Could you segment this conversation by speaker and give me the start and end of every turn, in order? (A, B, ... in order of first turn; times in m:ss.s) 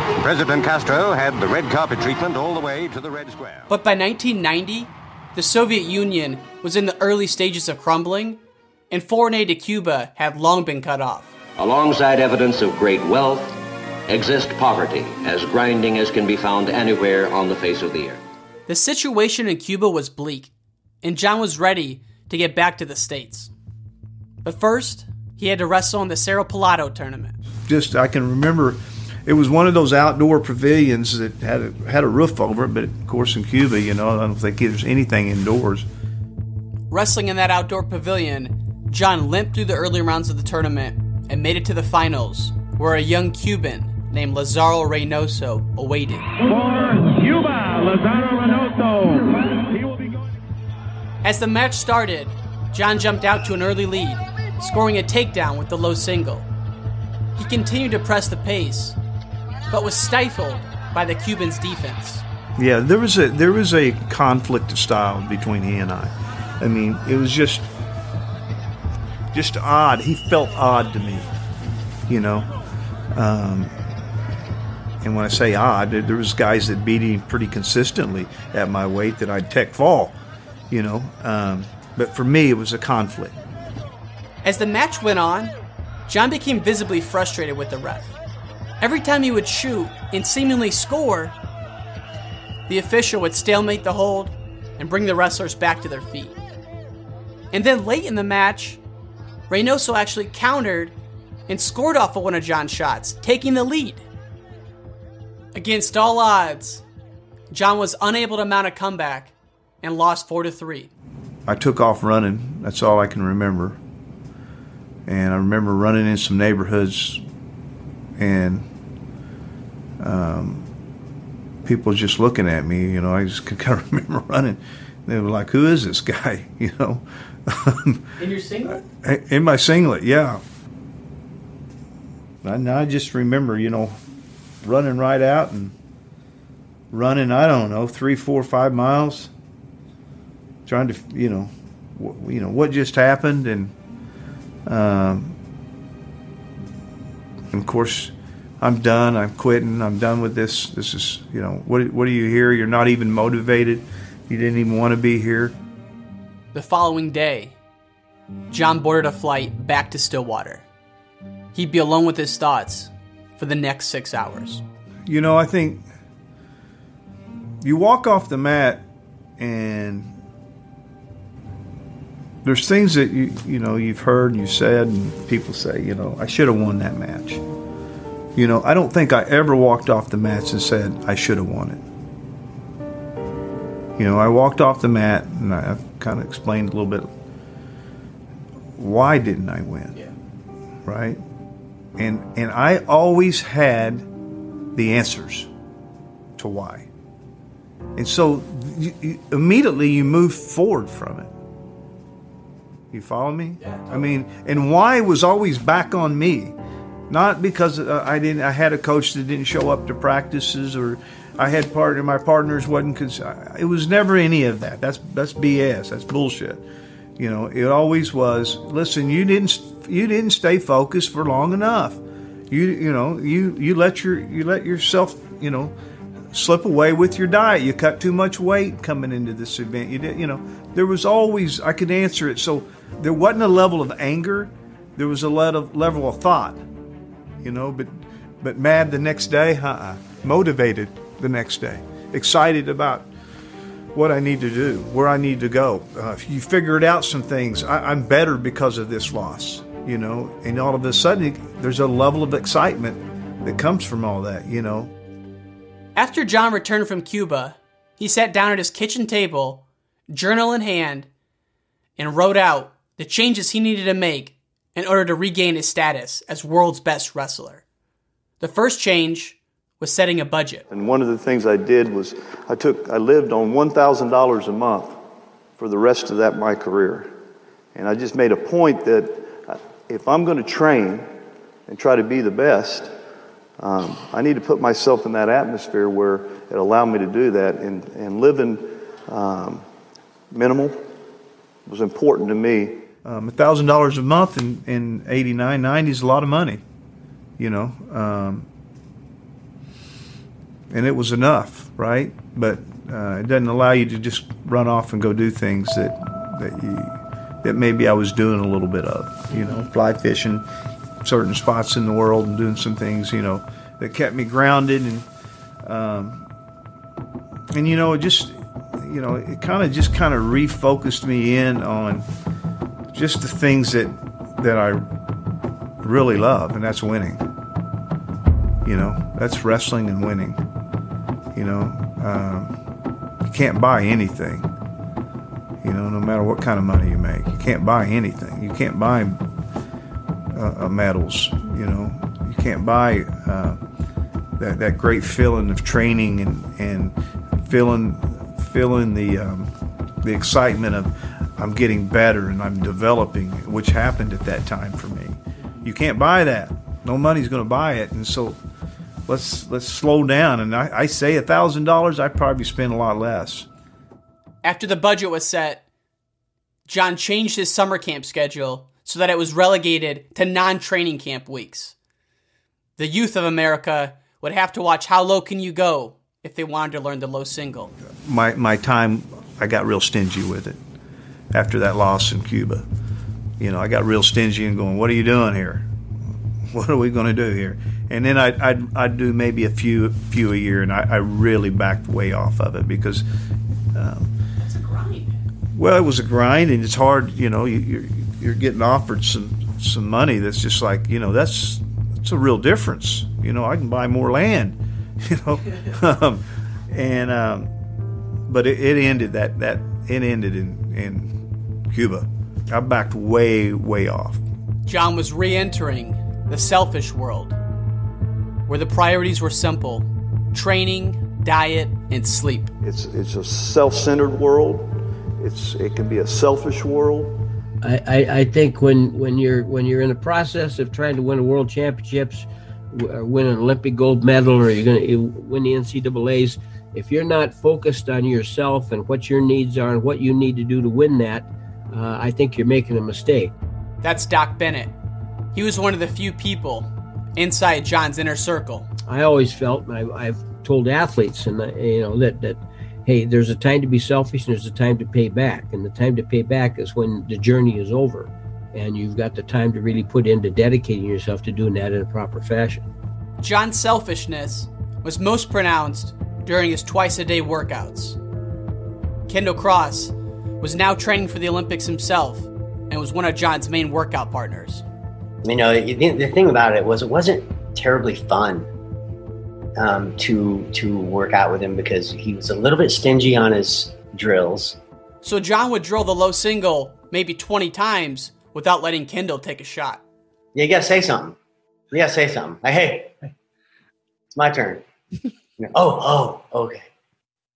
0:00.2-0:03.7 A
0:03.7-0:11.3 B
0:11.6-0:13.6 C
0:14.1-0:18.2 C
0:18.7-0:20.5 B
0:21.0-0:23.5 B
0:24.4-0:27.4 B
0:27.7-0:35.9 D
0:36.9-0:46.3 B
0:46.4-0:50.4 E
0:51.2-0:56.5 B
0:57.4-0:59.0 B
0:59.7-1:02.2 B
1:02.6-1:07.7 D
1:09.3-1:11.3 D
1:12.1-1:12.5 D
1:13.1-1:13.7 D
1:15.0-1:20.2 D
1:20.7-1:23.4 D
1:24.4-1:25.5 B
1:26.1-1:28.2 B
1:28.8-1:31.3 B
1:32.7-1:36.4 B
1:37.5-1:38.8 B
1:39.5-1:40.9 B
1:41.5-1:44.0 B
1:45.5-1:46.8 B
1:47.5-1:50.9 B
1:51.4-1:53.8 D
1:55.0-1:57.2 D
1:58.2-1:58.7 D
2:00.0-2:00.7 D
2:01.6-2:08.0 D
2:08.2-2:08.8 B
2:08.8-2:10.4 D
2:12.4-2:14.0 D
2:14.6-2:15.7 D
2:16.9-2:19.3 D
2:20.6-2:23.7 D
2:24.6-2:25.4 D
2:27.5-2:35.5 D
2:36.5-2:37.6 B
2:38.5-2:40.6 B
2:41.5-2:44.6 B
2:45.1-2:45.8 D
2:47.6-2:48.8 D
2:49.4-2:50.1 D
2:52.4-2:57.4 D
2:58.3-3:01.8 D
3:04.0-3:07.1 D
3:08.8-3:10.0 D
3:10.8-3:11.2 D
3:12.0-3:14.1 D
3:14.7-3:15.5 D
3:16.4-3:16.9 D
3:18.0-3:21.3 D
3:22.9-3:26.5 D
3:27.1-3:36.6 D
3:37.2-3:45.7 D
3:46.3-3:56.6 D
3:57.4-4:03.1 D
4:03.9-4:14.9 D
4:16.0-4:21.1 B
4:22.0-4:27.6 B
4:28.4-4:30.6 B
4:30.7-4:35.0 D
4:35.6-4:37.1 D
4:37.7-4:41.1 D
4:41.7-4:42.9 D
4:43.6-4:49.6 D
4:50.3-4:50.9 D
4:51.6-4:56.6 D
4:57.4-4:58.5 D
5:00.7-5:10.4 D
5:11.0-5:15.1 D
5:15.6-5:16.3 D
5:17.5-5:22.0 D
5:22.9-5:24.9 D
5:25.8-5:27.2 D
5:28.6-5:30.4 D
5:31.3-5:32.5 D
5:33.2-5:34.5 D
5:35.6-5:39.2 D
5:40.3-5:43.6 D
5:44.4-5:49.5 D
5:50.0-5:58.4 D
5:59.0-6:03.5 D
6:04.4-6:05.6 B
6:06.7-6:11.7 B
6:12.8-6:17.7 B
6:18.0-6:20.6 D
6:21.3-6:22.6 D
6:23.4-6:25.7 D
6:26.5-6:33.0 D
6:33.7-6:34.1 D
6:34.4-6:35.1 B
6:35.5-6:47.5 D
6:48.3-6:51.1 D
6:51.7-6:54.2 D
6:54.6-6:57.4 B
6:58.5-7:02.5 B
7:02.6-7:07.2 D
7:07.6-7:23.3 F
7:23.8-7:24.7 B
7:25.3-7:28.7 B
7:28.9-7:42.7 F
7:43.2-7:48.0 B
7:49.1-7:54.6 B
7:55.2-7:58.5 G
7:59.6-8:04.6 G
8:05.0-8:09.8 B
8:10.3-8:11.2 G
8:11.7-8:12.9 G
8:14.1-8:14.6 G
8:15.4-8:16.7 G